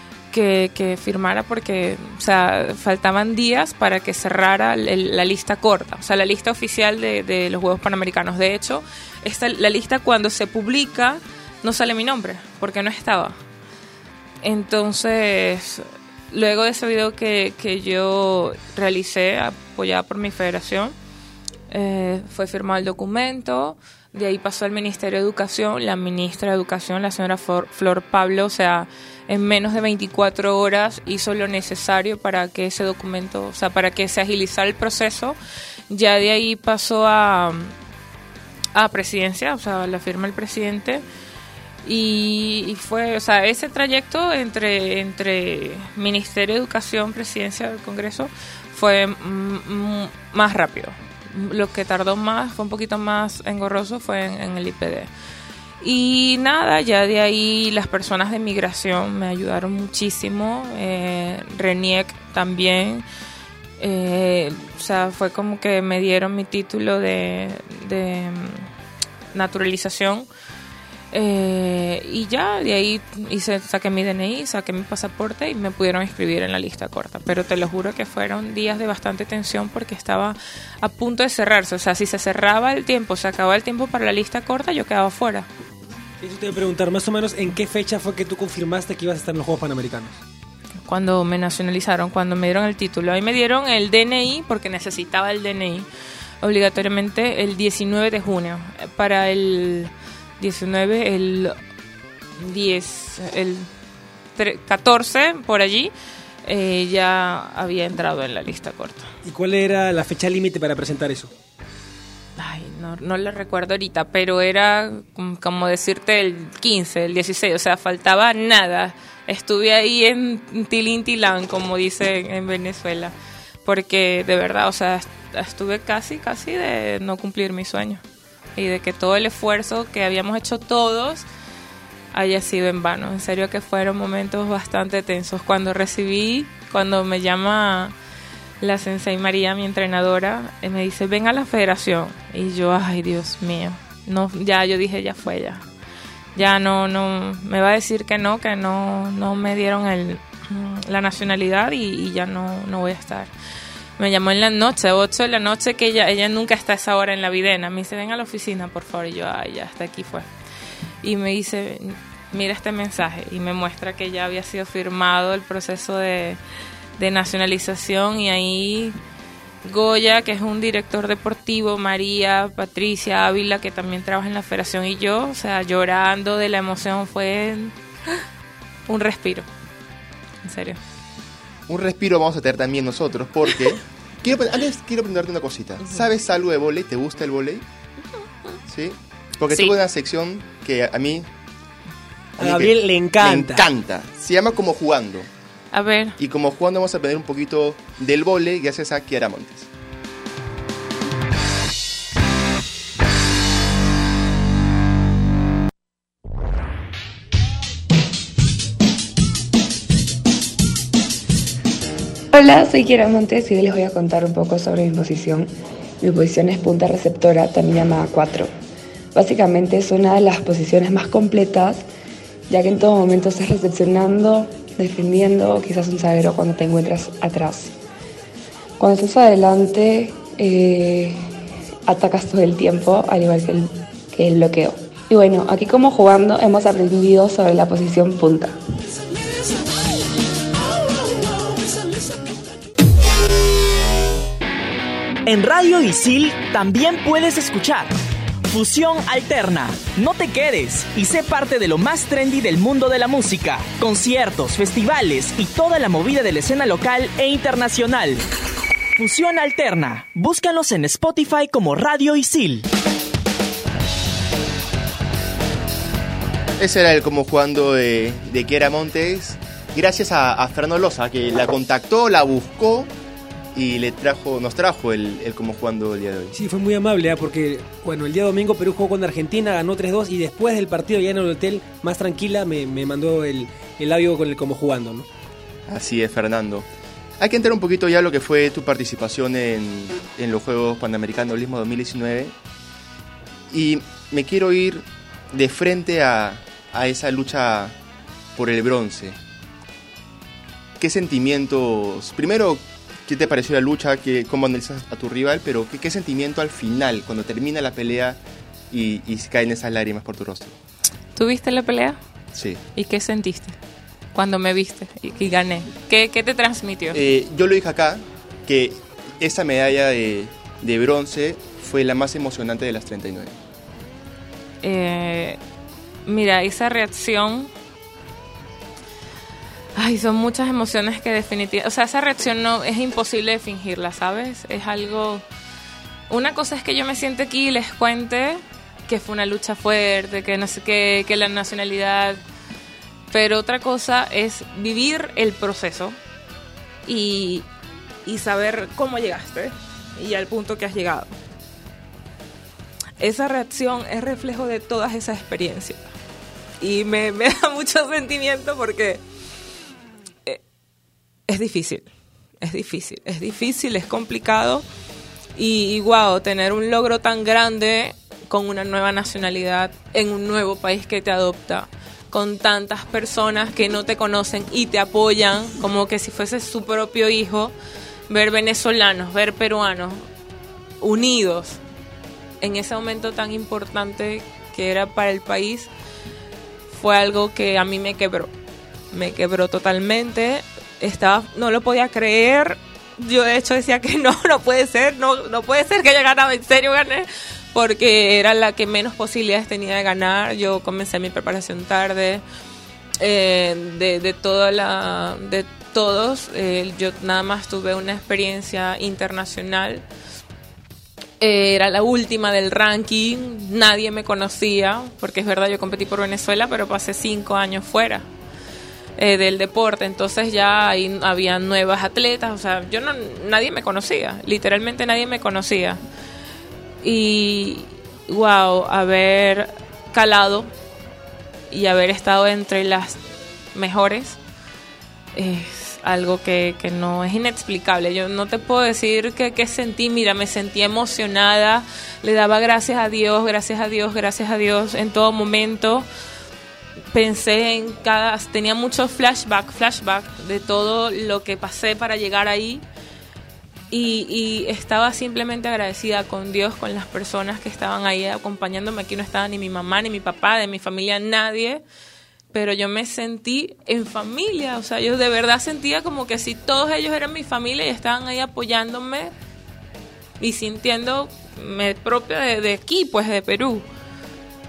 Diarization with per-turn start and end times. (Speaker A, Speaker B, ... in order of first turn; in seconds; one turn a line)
Speaker A: 0.3-13.4
Speaker A: 14.4-20.9
Speaker A: 21.7-35.4
Speaker A: 35.9-37.7
Speaker A: 38.7-41.0
Speaker A: 41.8-55.1
Speaker A: 55.8-63.0
Speaker A: 63.8-68.7
Speaker A: 69.3-70.3
Speaker A: 71.1-85.5
Speaker B: 86.2-90.2
Speaker A: 90.8-95.9
Speaker A: 96.4-101.5
Speaker A: 102.4-103.7
Speaker A: 104.3-105.9
Speaker A: 106.4-109.1
Speaker B: 109.2-111.3
Speaker A: 112.4-123.1
Speaker A: 123.6-128.0
Speaker A: 128.6-131.2
Speaker A: 132.1-137.9
Speaker A: 138.6-145.6
Speaker A: 146.3-153.3
Speaker A: 154.0-160.3
Speaker A: 161.0-166.4
Speaker A: 167.0-169.0
Speaker A: 169.6-177.8
Speaker A: 178.9-179.5
Speaker A: 180.4-180.8
Speaker C: 181.7-187.6
Speaker C: 188.7-191.3
Speaker C: 192.4-195.3
Speaker B: 192.4-193.7
Speaker A: 195.7-196.2
Speaker C: 196.2-199.7
Speaker D: 212.3-218.5
Speaker D: 219.1-221.8
Speaker D: 222.5-227.7
Speaker D: 228.8-231.3
Speaker D: 231.9-238.5
Speaker E: 245.2-247.9
Speaker E: 248.5-258.2
Speaker E: 258.9-262.7
Speaker C: 266.6-272.9
Speaker C: 273.5-276.4
Speaker B: 276.3-285.1
Speaker C: 285.7-286.7
Speaker C: 287.2-292.3
Speaker C: 293.5-297.7
Speaker C: 298.4-299.2
Speaker C: 300.8-308.2
Speaker C: 308.7-310.6
Speaker A: 311.1-312.0
Speaker C: 312.3-312.6
Speaker A: 312.7-313.6
Speaker A: 314.1-317.0
Speaker C: 316.9-323.4
Speaker A: 324.6-325.4
Speaker A: 326.1-327.5
Speaker A: 329.8-335.2
Speaker A: 336.1-342.2
Speaker A: 343.1-346.0
Speaker A: 346.9-347.5
Speaker A: 348.0-351.1
Speaker A: 353.0-355.9
Speaker A: 356.6-359.0
Speaker A: 361.3-361.9
Speaker A: 362.4-364.6
Speaker A: 365.4-377.5
Speaker A: 378.1-380.1
Speaker A: 380.8-381.6
Speaker A: 382.4-385.7
Speaker A: 386.7-388.3
Speaker A: 388.9-402.2
Speaker A: 403.0-409.8
Speaker A: 411.2-418.1
Speaker A: 419.0-425.8
Speaker A: 426.8-430.5
Speaker A: 431.5-433.0
Speaker A: 433.5-434.2
Speaker A: 435.1-445.9
Speaker A: 446.9-452.6
Speaker A: 453.7-461.6
Speaker A: 462.3-469.1
Speaker A: 470.2-473.6